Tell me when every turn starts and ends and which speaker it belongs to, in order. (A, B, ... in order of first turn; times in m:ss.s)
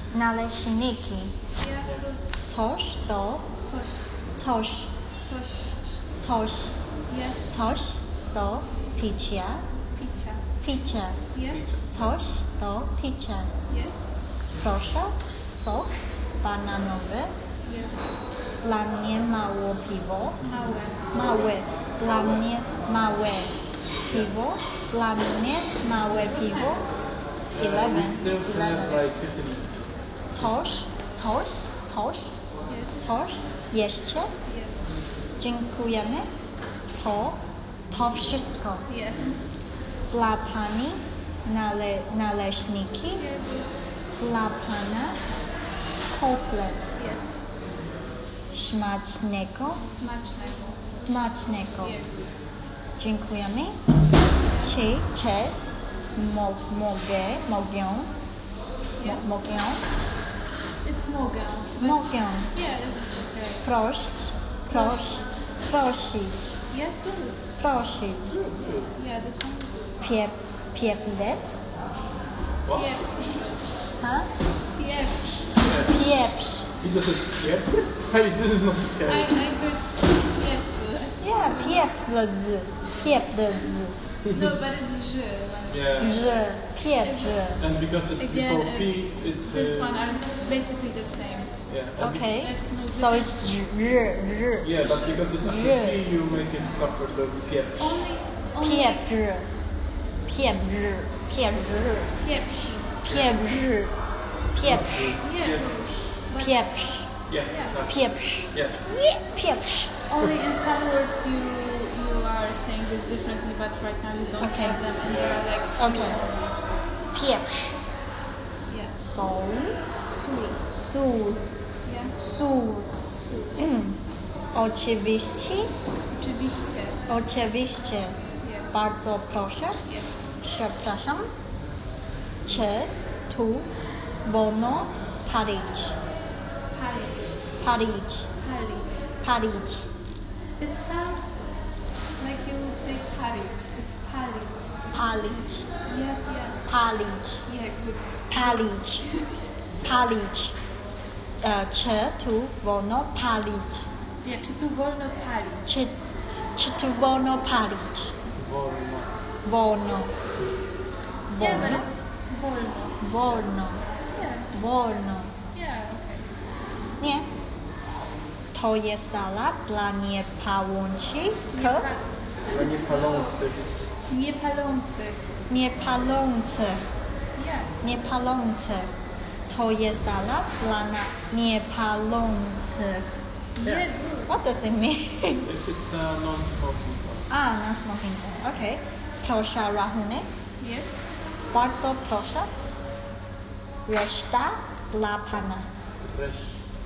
0:00.1-0:01.3 A
0:01.5-0:02.3 B
0:02.5-0:03.5 A
0:03.6-0:04.1 B
0:04.4-0:04.9 A
0:05.2-0:06.1 B
0:06.2-0:06.8 A
0:07.1-0:07.4 B
0:07.5-0:09.6 A
0:10.0-0:10.4 B
0:10.6-0:11.2 A
0:11.3-0:11.6 B
0:11.5-0:11.9 C
0:11.9-0:13.5 A
0:13.7-0:14.1 B
0:14.6-0:17.3 A
0:17.6-0:18.1 B
0:18.6-0:20.4 A
0:20.4-0:21.1 B
0:21.1-0:26.8 A
0:21.1-0:22.4 C
0:26.0-0:27.0 B
0:27.6-0:30.5 C
0:27.6-0:29.0 A
0:30.3-0:32.3 A
0:32.7-0:33.0 B
0:33.0-0:34.3 A
0:34.4-0:34.9 B
0:35.4-0:36.3 A
0:37.0-0:37.4 A
0:37.9-0:38.8 A
0:38.9-0:39.4 B
0:40.1-0:43.2 A
0:43.1-0:43.7 B
0:44.2-0:45.2 A
0:46.0-0:46.9 A
0:46.9-0:47.3 B
0:48.5-0:49.9 A
0:49.8-0:51.0 B
0:50.9-0:52.0 A
0:51.8-0:52.2 B
0:53.0-0:53.8 A
0:54.4-0:54.8 B
0:54.6-0:55.6 A
0:56.1-0:58.1 A
0:59.0-0:59.2 B
0:59.0-0:59.8 A
1:00.8-1:03.7 B
1:01.8-1:02.5 A
1:03.6-1:06.6 A
1:04.7-1:05.4 B
1:06.7-1:07.4 B
1:07.6-1:08.4 A
1:08.3-1:08.9 C
1:08.9-1:10.0 B
1:10.0-1:11.5 A
1:12.6-1:13.0 C
1:12.7-1:13.7 B
1:14.0-1:14.3 A
1:14.8-1:15.6 B
1:15.6-1:16.1 C
1:15.7-1:16.7 A
1:16.8-1:19.3 C
1:19.0-1:21.9 B
1:21.2-1:23.9 A
1:24.3-1:26.5 B
1:25.7-1:26.2 C
1:26.0-1:27.6 A
1:27.0-1:27.4 B
1:27.6-1:30.0 C
1:28.2-1:31.5 B
1:31.7-1:32.3 C
1:32.0-1:34.7 A
1:32.4-1:33.3 B
1:34.6-1:38.0 C
1:35.4-1:36.0 A
1:37.8-1:39.1 B
1:38.6-1:39.5 A
1:40.3-1:42.2 A
1:42.2-1:43.0 B
1:43.0-1:44.0 A
1:43.0-1:43.4 C
1:44.5-1:45.2 A
1:44.6-1:45.7 C
1:45.2-1:46.7 B
1:46.4-1:47.2 A
1:47.3-1:48.8 C
1:47.5-1:47.8 B
1:47.9-1:49.9 A
1:50.1-1:56.7 B
1:54.4-1:54.8 A
1:55.0-1:55.4 C
1:55.8-1:56.2 A
1:57.1-1:57.8 A
1:58.7-1:59.0 B
1:59.0-1:59.8 A
2:00.0-2:00.6 B
2:00.7-2:01.4 A
2:01.8-2:02.2 B
2:02.2-2:02.9 A
2:03.1-2:03.7 B
2:03.6-2:04.0 A
2:04.5-2:05.7 A
2:06.1-2:07.0 B
2:07.1-2:08.2 A
2:08.4-2:08.7 B
2:08.7-2:09.8 A
2:09.8-2:10.3 B
2:10.4-2:11.3 A
2:12.4-2:13.7 A
2:14.2-2:16.0 A
2:16.7-2:17.4 B
2:17.6-2:18.3 A
2:18.4-2:19.1 B
2:19.2-2:19.9 A
2:20.6-2:21.5 B
2:22.2-2:24.8 B
2:24.9-2:25.7 A
2:25.8-2:26.6 B
2:26.7-2:27.4 A
2:27.4-2:29.4 B
2:28.3-2:29.0 A
2:29.8-2:30.6 A
2:31.4-2:33.9 A
2:34.2-2:35.7 B
2:35.7-2:36.0 A
2:36.6-2:38.1 A
2:38.3-2:39.1 C
2:39.4-2:40.1 A
2:41.3-2:41.9 A
2:41.4-2:43.0 B
2:43.0-2:43.8 A
2:44.1-2:44.5 B
2:44.5-2:45.3 A
2:45.5-2:46.3 B
2:47.0-2:47.3 A
2:48.5-2:51.8 A
2:51.5-2:53.4 B
2:52.4-2:53.7 C
2:54.1-2:55.2 B
2:55.5-2:56.8 A
2:57.3-2:57.7 B
2:57.8-2:58.9 A
2:59.5-3:03.1 A
3:03.6-3:04.4 B
3:04.3-3:05.4 A
3:05.4-3:07.2 C
3:07.3-3:10.3 A
3:10.6-3:11.0 B
3:11.5-3:12.5 A
3:13.9-3:15.7 A
3:16.0-3:16.6 C